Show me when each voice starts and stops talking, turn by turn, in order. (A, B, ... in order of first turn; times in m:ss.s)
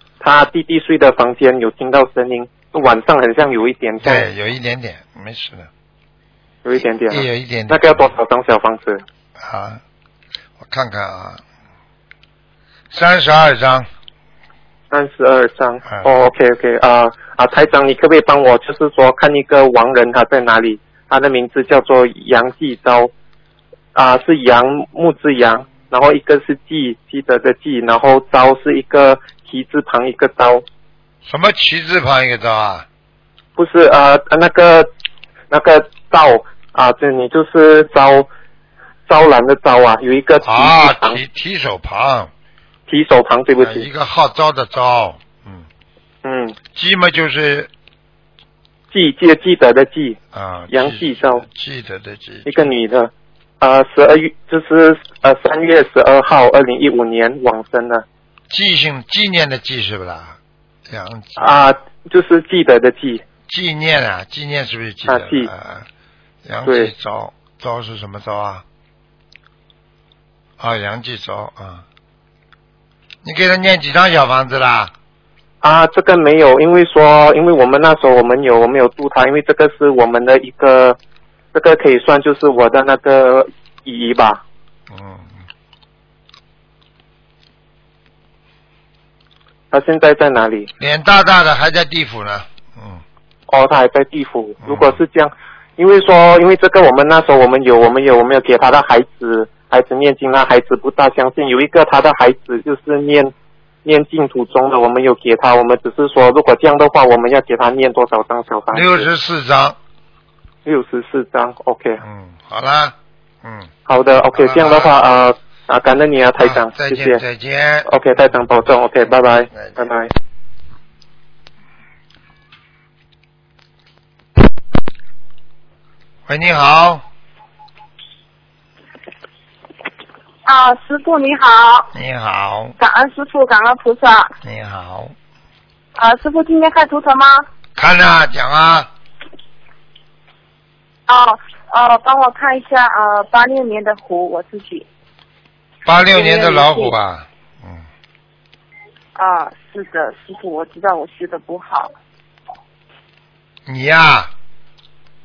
0:00.2-0:04.2 A
0:04.0-0:05.7 B
0:06.6-0:09.0 A
0:07.1-0:08.0 B
0:09.4-0:09.8 B
0:10.6-0:11.4 B
0:12.9-0:13.9 B
0:14.9-0:23.1 A
0:23.9-0:30.6 A
0:31.2-0:32.8 B
0:33.6-0:34.9 A
0:35.5-0:38.3 A
0:39.1-0:41.2 A
0:40.4-0:42.3 B
0:42.9-0:43.9 A
0:43.6-0:45.7 B
0:46.2-0:46.6 A
0:46.7-0:47.7 B
0:48.9-0:50.2 A
0:50.3-0:52.7 B
0:50.7-0:51.4 A
0:52.4-0:58.0 A
0:58.5-1:00.4 B
1:00.9-1:01.5 B
1:01.4-1:03.2 A
1:03.5-1:05.9 B
1:05.0-1:05.5 A
1:06.4-1:08.6 B
1:06.6-1:06.9 A
1:10.6-1:11.8 B
1:13.2-1:14.9 B
1:15.6-1:21.0 A
1:21.5-1:24.4 A
1:24.9-1:25.4 B
1:29.7-1:30.7 A
1:30.8-1:33.0 B
1:33.5-1:43.3 A
1:34.6-1:35.0 B
1:43.8-1:49.1 A
1:48.7-1:49.8 B
1:50.6-1:52.0 A
1:52.0-1:53.7 B
1:53.9-1:57.2 A
1:54.4-1:54.9 B
1:56.4-1:57.9 B
1:57.8-2:00.1 A
1:59.5-1:59.9 B
2:06.3-2:07.0 B
2:10.4-2:11.9 C
2:11.9-2:12.7 B
2:12.8-2:14.3 C
2:14.4-2:15.1 B
2:16.0-2:17.5 C
2:17.7-2:18.9 B
2:21.1-2:24.8 C
2:25.8-2:27.8 B
2:26.1-2:27.0 C
2:29.2-2:31.9 C
2:33.6-2:34.3 B